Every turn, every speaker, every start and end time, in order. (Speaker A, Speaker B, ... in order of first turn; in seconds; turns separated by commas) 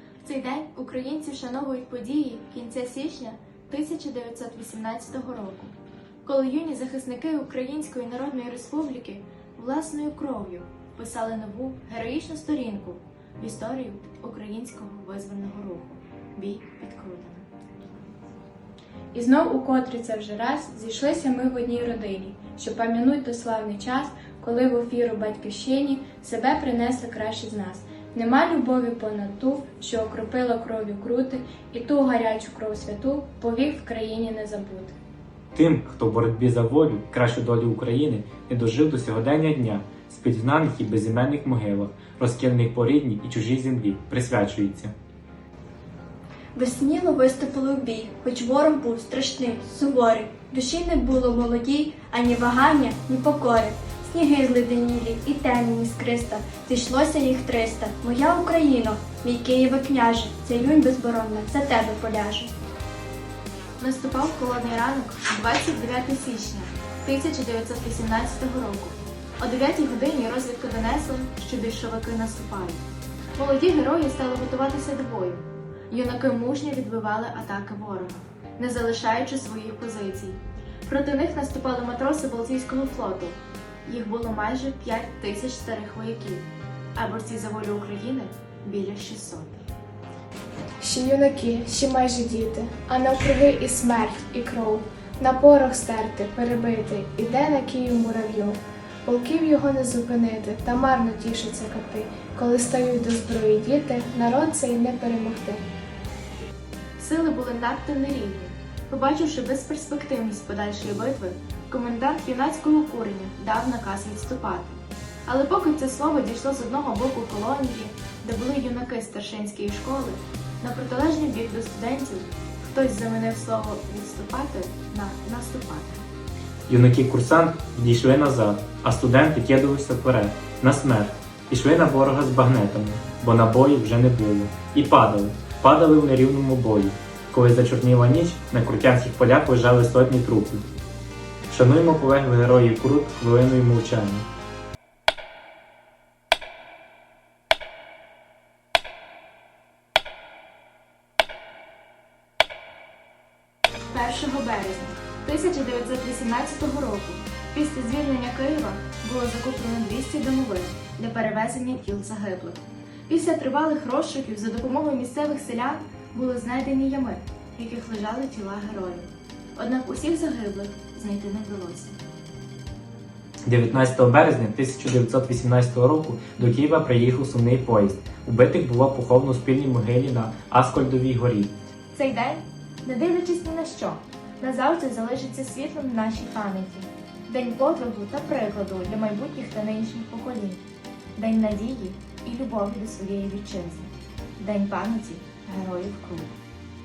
Speaker A: 0.2-17.5, Speaker B: 19.1-35.0, Speaker C: 35.5-44.9, Speaker D: 46.5-62.5, Speaker A: 63.8-72.8, Speaker A: 73.3-89.7, Speaker E: 90.8-105.6, Speaker A: 107.0-126.0, Speaker C: 126.7-140.6, Speaker C: 141.5-144.2, Speaker A: 153.9-172.0, Speaker C: 173.5-181.5, Speaker A: 181.9-190.6, Speaker A: 191.2-196.3